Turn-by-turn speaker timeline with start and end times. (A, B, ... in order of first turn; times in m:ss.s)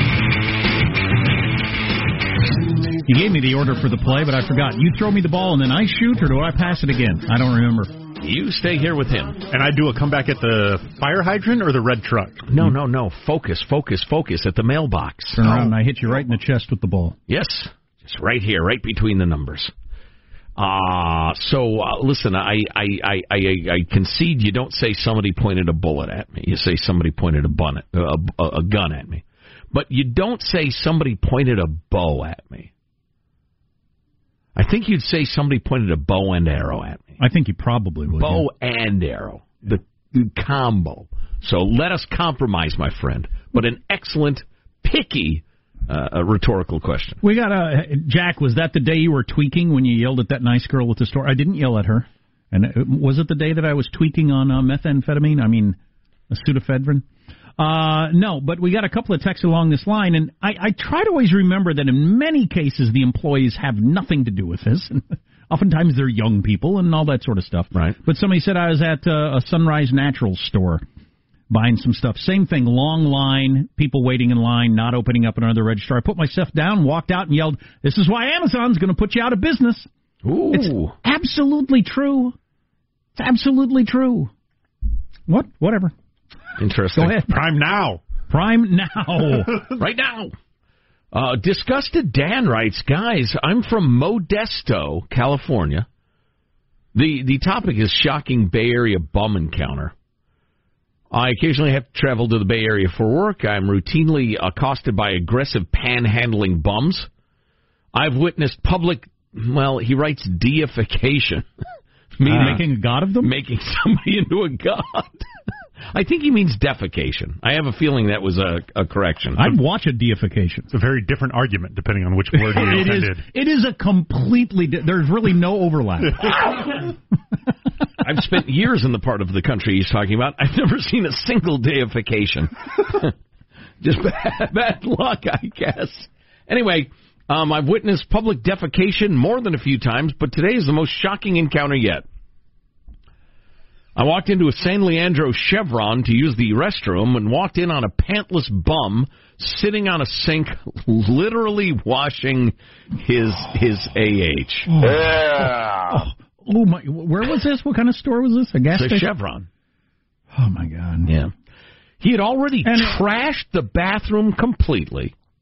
0:03.0-0:07.9 A
0:08.2-0:09.4 B
0:09.5-0:12.4 C
0:12.5-0:15.5 B
0:15.4-0:17.2 A
0:17.3-0:19.7 B
0:20.6-0:32.7 B
0:34.6-0:37.2 B
0:37.2-0:38.4 A
0:38.1-0:47.2 B
0:47.2-0:55.8 A
0:56.3-0:57.0 A
0:57.6-1:10.8 A
1:11.5-1:19.9 A
1:20.2-1:20.9 B
1:20.5-1:22.3 A
1:23.2-1:24.3 A
1:25.3-1:25.9 A
1:26.6-1:27.2 B
1:27.0-1:27.4 A
1:27.3-1:28.0 C
1:28.3-1:29.6 A
1:29.8-1:30.3 B
1:31.1-1:35.8 B
1:36.9-1:39.9 B
1:41.1-1:47.1 B
1:47.9-1:51.4 B
1:52.2-1:52.7 B
1:52.2-1:53.3 A
1:53.2-1:55.2 B
1:55.9-1:59.5 B
1:59.4-2:00.7 A
2:00.7-2:03.2 C
2:02.6-2:06.4 A
2:08.0-2:13.1 B
2:13.8-2:22.0 B
2:24.0-2:34.7 B
2:34.7-2:39.1 A
2:38.7-2:39.5 B
2:40.3-2:41.1 A
2:41.1-2:41.3 B
2:42.0-2:45.1 B
2:42.6-2:43.0 A